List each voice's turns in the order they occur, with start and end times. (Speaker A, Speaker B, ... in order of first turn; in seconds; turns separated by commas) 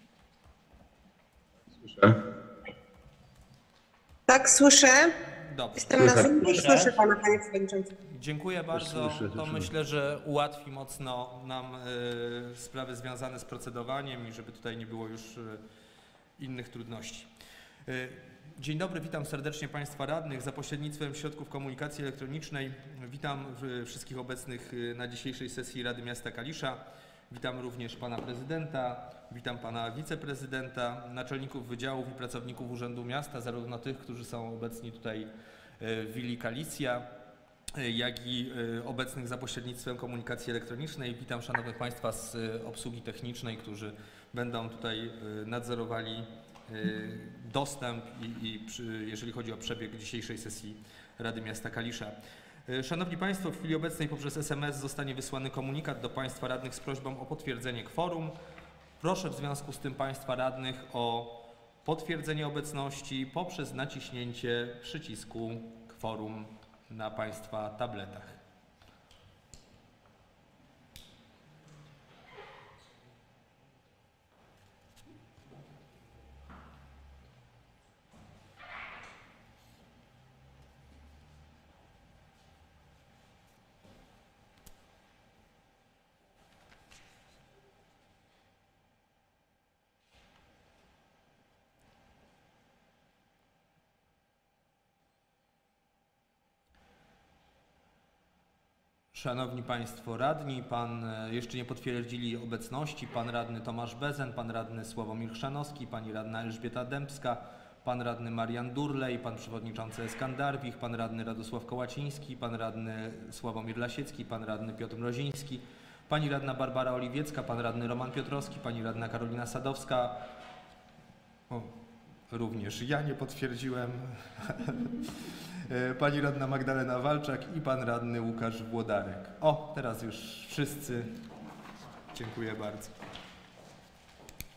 Speaker A: 1.8-2.2, Speaker B: 4.3-5.1, Speaker C: 5.5-6.1, Speaker B: 5.8-7.9, Speaker A: 6.0-6.9, Speaker C: 8.1-15.6, Speaker A: 8.7-9.7, Speaker C: 16.4-17.3, Speaker C: 17.9-37.1, Speaker C: 37.8-52.1, Speaker C: 52.7-58.3, Speaker C: 59.0-68.4, Speaker C: 99.1-120.3, Speaker C: 121.5-121.8, Speaker C: 122.3-131.2, Speaker C: 132.1-132.9